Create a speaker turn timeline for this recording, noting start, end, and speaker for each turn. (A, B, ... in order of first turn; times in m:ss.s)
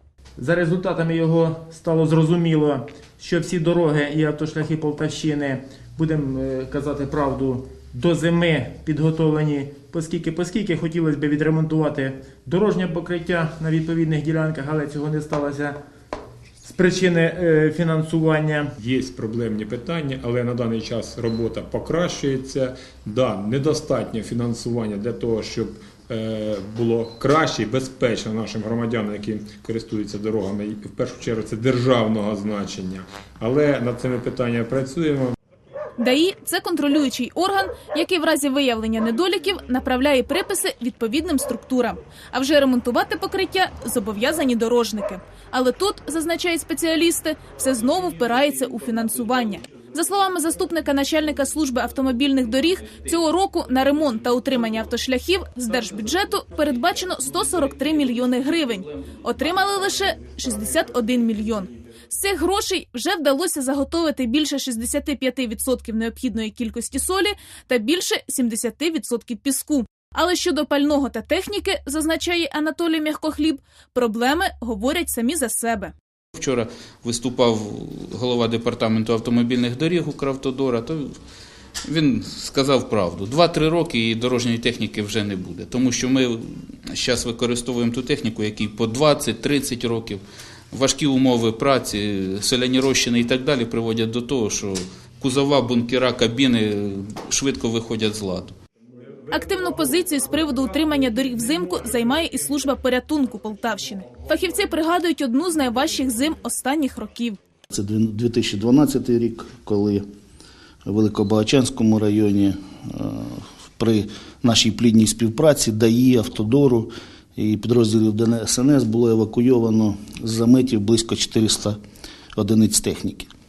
0:00.4-0:15.8 A
0:16.6-0:18.7 A
0:18.8-0:35.4 B
0:36.0-1:15.9 C
1:16.4-1:21.1 D
1:21.9-1:38.6 D
1:39.3-1:47.4 C
1:47.7-1:50.0 E
1:50.8-2:01.8 E
2:02.4-2:03.3 E